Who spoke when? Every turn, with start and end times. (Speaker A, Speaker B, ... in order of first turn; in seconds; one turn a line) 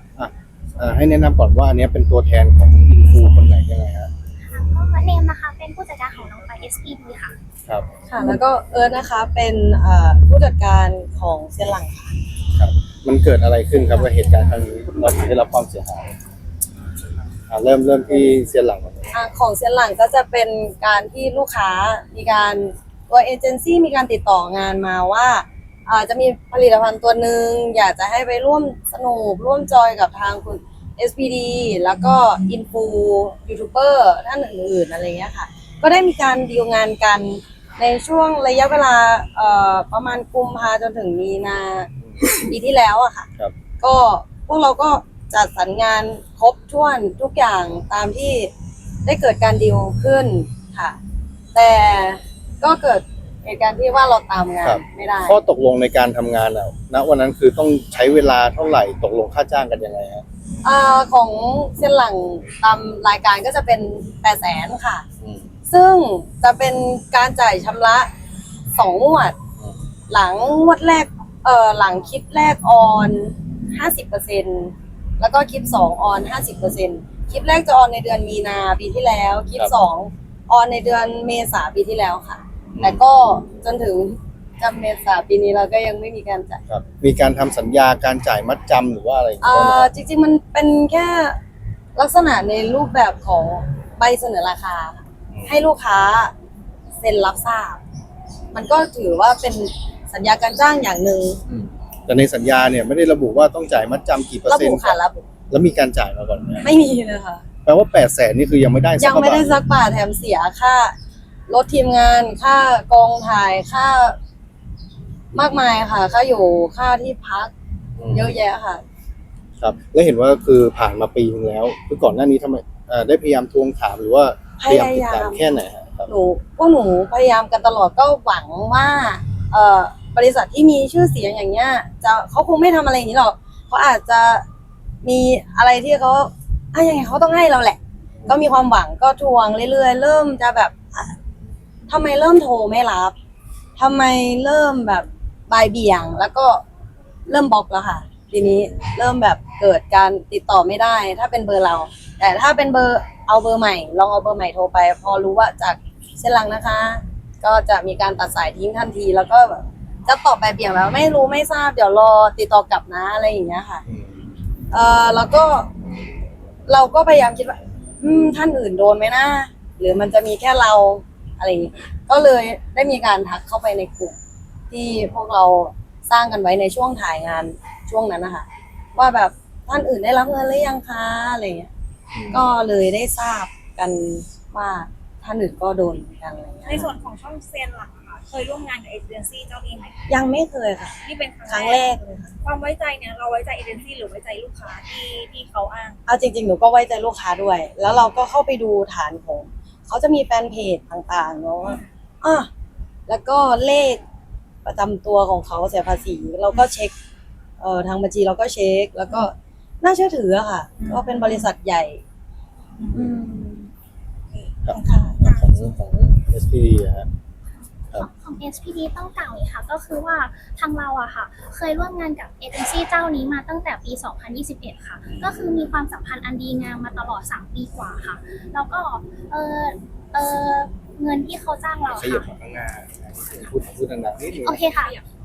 Speaker A: 0.1-4.1
Speaker B: 4.4-7.3
Speaker A: 7.7-8.4
Speaker C: 8.1-12.1
Speaker A: 12.5-16.1
Speaker A: 17.5-19.2
Speaker C: 19.1-43.3
Speaker C: 43.8-48.5
Speaker C: 49.0-51.0
Speaker C: 51.5-55.4
Speaker A: 54.6-60.2
Speaker C: 60.6-65.0
Speaker A: 65.2-65.5
Speaker C: 65.7-68.1
Speaker C: 68.7-69.3
Speaker C: 70.1-86.6
Speaker A: 82.7-83.0
Speaker A: 86.7-89.9
Speaker C: 89.4-91.4
Speaker C: 92.0-96.3
Speaker A: 95.3-95.6
Speaker C: 97.0-97.8
Speaker C: 98.5-101.4
Speaker A: 101.5-105.0
Speaker C: 104.5-105.2
Speaker A: 105.5-106.7
Speaker C: 106.6-107.4
Speaker A: 107.7-109.6
Speaker C: 109.0-110.9
Speaker C: 111.5-114.2
Speaker C: 115.3-117.5
Speaker A: 118.0-118.3
Speaker C: 118.1-118.8
Speaker A: 119.6-126.1
Speaker C: 124.6-125.4
Speaker C: 126.1-134.4
Speaker C: 135.0-141.1
Speaker C: 141.9-143.1
Speaker C: 143.8-146.6
Speaker C: 147.3-163.8
Speaker A: 163.9-164.2
Speaker C: 164.7-165.7
Speaker C: 166.7-174.2
Speaker C: 174.7-178.4
Speaker C: 178.9-181.7
Speaker A: 182.1-182.4
Speaker C: 182.3-186.9
Speaker D: 186.7-189.9
Speaker C: 190.1-192.3
Speaker D: 191.0-191.9
Speaker D: 192.4-196.0
Speaker C: 196.1-202.5
Speaker C: 203.1-204.0
Speaker C: 204.6-206.9
Speaker C: 207.6-212.0
Speaker D: 210.8-211.4
Speaker D: 212.8-213.1
Speaker C: 212.9-213.7
Speaker D: 214.3-215.8
Speaker A: 214.7-217.1
Speaker C: 214.9-215.2
Speaker B: 217.9-232.3
Speaker A: 231.9-234.6
Speaker B: 234.4-235.0